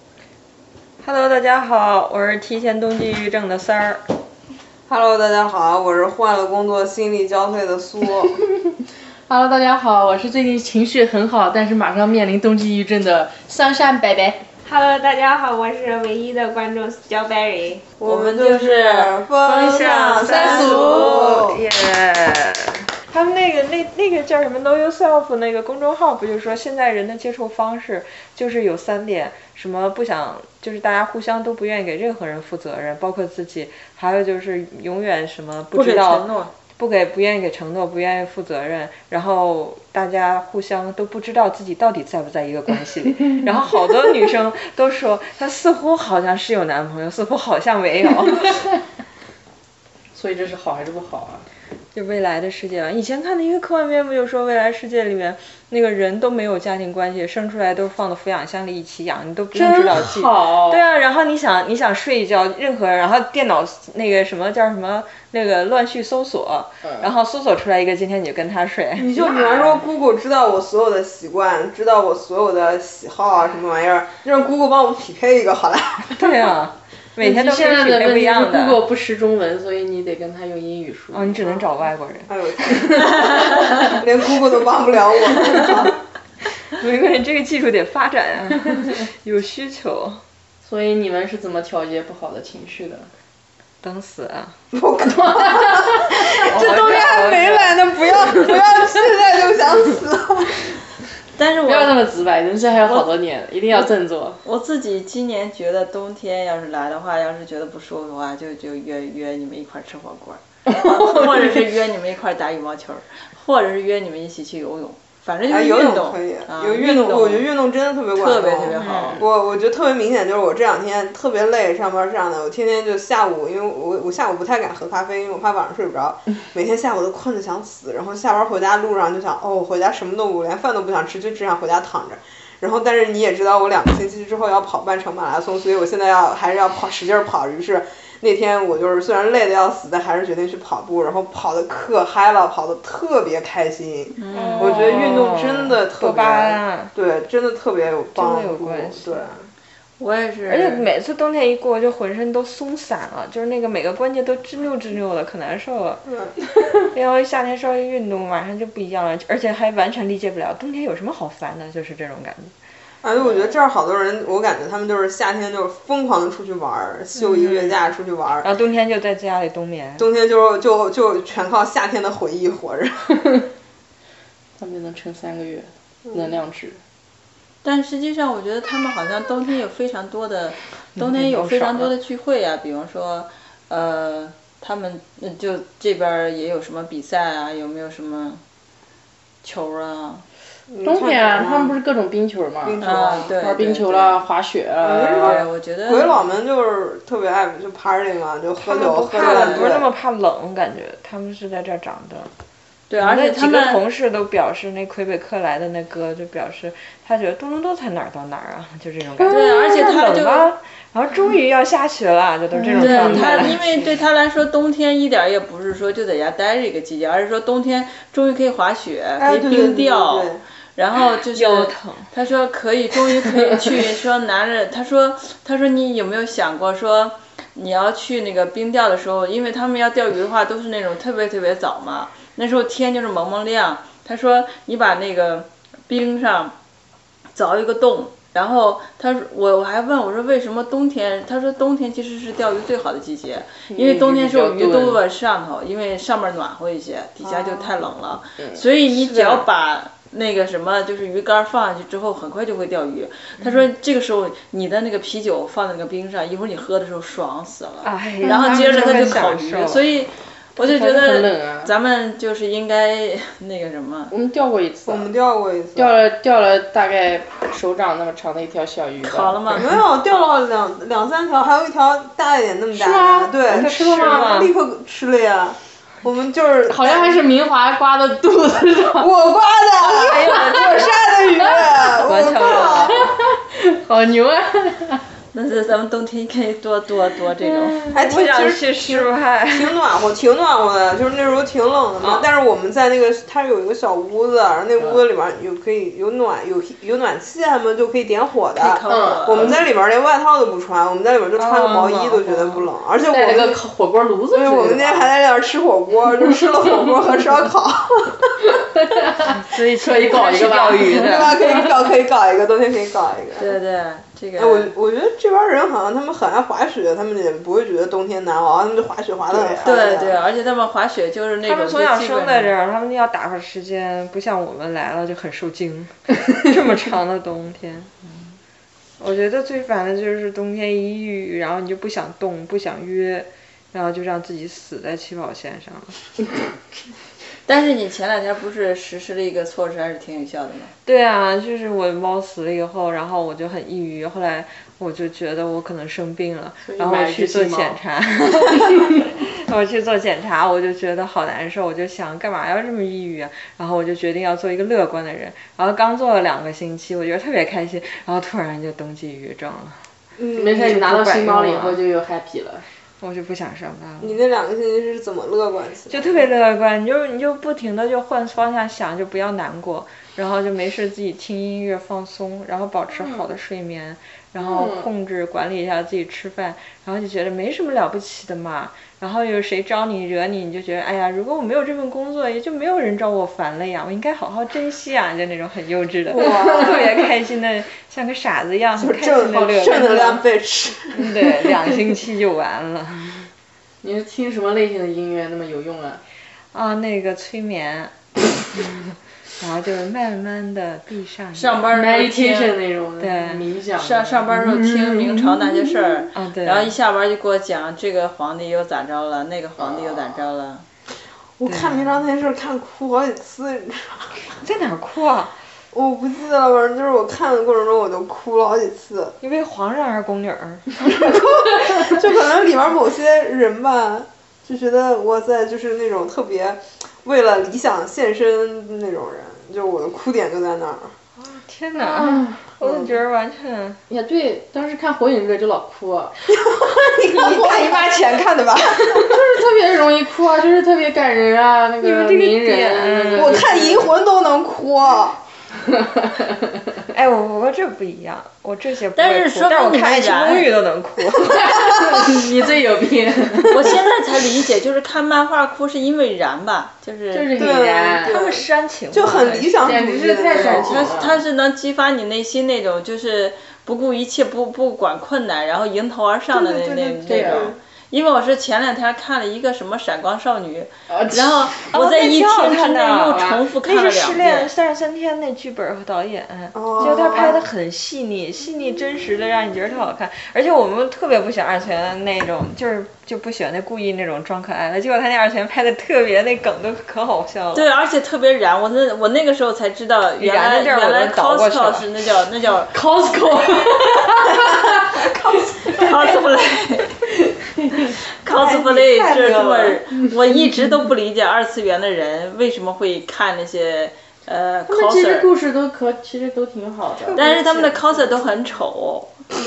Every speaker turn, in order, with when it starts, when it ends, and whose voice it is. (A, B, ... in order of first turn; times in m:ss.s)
0:01.0-0:04.0 A
0:04.9-0:08.4 B
0:09.3-0:14.4 C
0:14.7-0:17.8 D
0:15.4-0:17.7 A
0:18.0-0:21.6 B
0:18.0-0:21.0 E
0:19.6-0:48.8 A
0:20.3-0:21.3 C
0:35.7-0:36.5 E
0:50.1-0:51.5 C
0:51.9-1:09.8 A
0:59.5-1:00.8 C
1:09.0-1:16.2 B
1:16.1-1:18.8 A
1:17.2-1:21.6 C
1:21.1-1:23.0 A
1:22.3-1:26.0 B
1:26.6-1:30.2 A
1:30.6-1:33.1 C
1:33.8-1:34.6 A
1:34.7-1:40.8 B
1:35.3-1:35.9 C
1:36.3-1:38.6 A
1:41.4-1:42.0 E
1:41.6-1:44.4 C
1:42.8-1:43.2 E
1:44.4-1:57.5 E
1:50.7-1:51.5 C
1:55.5-2:29.4 B
1:58.2-1:59.2 E
1:58.8-1:59.2 A
2:24.2-2:25.0 E
2:24.3-2:26.9 A
2:28.2-2:29.5 A
2:30.0-2:30.9 E
2:30.5-2:36.0 A
2:36.1-2:36.3 B
2:36.7-2:42.5 A
2:43.0-2:48.5 B
2:43.2-2:43.5 A
2:47.2-2:47.8 A
2:48.4-2:50.1 A
2:50.0-2:53.2 B
2:54.6-2:56.8 C
2:57.6-3:08.4 E
3:01.0-3:01.9 A
3:09.4-3:10.2 E
3:10.7-3:11.8 B
3:10.8-3:15.4 C
3:12.6-3:13.4 B
3:12.8-3:14.2 E
3:14.8-3:19.9 B
3:15.2-3:16.3 E
3:18.6-3:22.3 A
3:19.2-3:19.7 E
3:22.9-3:23.8 E
3:22.9-3:34.0 A
3:29.3-3:30.5 E
3:32.6-3:33.6 C
3:32.8-3:56.6 E
3:39.2-3:40.4 B
3:41.3-3:42.1 A
3:57.3-4:24.1 E
4:03.7-4:05.0 C
4:07.3-4:07.5 C
4:08.4-4:08.6 C
4:08.9-4:09.5 A
4:17.8-4:19.8 A
4:18.2-4:19.2 C
4:20.6-4:21.7 C
4:24.1-4:25.1 C
4:24.9-4:26.0 B
4:25.8-4:29.7 C
4:29.0-4:29.7 E
4:29.6-4:37.2 B
4:32.7-4:34.4 C
4:33.5-4:34.5 A
4:36.7-4:39.1 C
4:39.0-4:43.1 B
4:39.8-4:43.1 A
4:40.2-4:40.8 C
4:42.6-4:45.0 C
4:45.3-4:47.8 E
4:47.8-4:49.8 A
4:47.9-5:03.6 B
4:58.6-4:59.6 E
4:58.9-4:59.6 C
5:01.4-5:02.7 A
5:03.1-5:05.1 C
5:04.3-5:08.3 B
5:06.6-5:07.0 C
5:08.8-5:11.7 C
5:09.3-5:11.4 A
5:11.0-5:13.5 B
5:13.4-5:14.7 E
5:14.4-5:20.2 B
5:19.3-5:20.1 C
5:19.6-5:22.5 E
5:21.4-5:27.9 A
5:29.0-5:36.0 A
5:37.5-5:40.7 E
5:40.8-5:59.8 A
5:46.7-5:47.8 C
6:00.2-6:00.8 B
6:00.4-6:02.7 C
6:00.6-6:01.8 A
6:03.0-6:04.2 A
6:04.0-6:06.3 B
6:05.9-6:30.2 A
6:12.9-6:13.3 C
6:14.4-6:14.9 C
6:26.1-6:27.1 B
6:28.8-6:31.5 B
6:30.9-6:33.3 A
6:33.8-6:36.0 C
6:36.5-6:37.9 A
6:39.4-6:41.7 A
6:41.3-6:42.6 E
6:41.7-6:46.0 C
6:43.0-6:43.4 A
6:43.8-6:50.7 E
6:46.1-6:46.8 A
6:49.6-6:50.2 B
6:51.4-6:54.2 B
6:51.5-6:52.0 A
6:54.3-6:55.4 A
6:55.7-6:59.2 B
6:59.2-7:01.1 A
7:00.8-7:10.9 B
7:11.2-7:13.8 A
7:11.8-7:12.4 C
7:12.6-7:13.0 B
7:13.9-7:16.1 C
7:16.3-7:19.2 B
7:17.2-7:17.9 A
7:18.9-7:23.9 C
7:21.8-7:23.4 A
7:23.2-7:25.2 B
7:26.9-7:31.6 A
7:29.0-7:30.6 E
7:31.4-7:33.8 C
7:33.5-7:37.4 E
7:37.1-7:38.2 C
7:37.4-7:41.0 B
7:38.0-7:39.8 A
7:39.6-7:41.2 C
7:40.3-7:54.5 E
7:46.3-7:47.6 B
7:47.1-7:47.5 C
7:50.9-7:51.5 C
7:51.6-8:07.6 A
7:56.5-7:57.4 B
8:07.5-8:12.7 E
8:10.2-8:11.9 A
8:12.7-8:15.8 C
8:15.7-8:16.9 E
8:17.6-8:17.9 C
8:18.2-8:25.3 E
8:18.3-8:19.8 A
8:18.3-8:19.8 B
8:24.7-8:27.7 C
8:27.0-8:28.2 A
8:27.2-8:29.2 E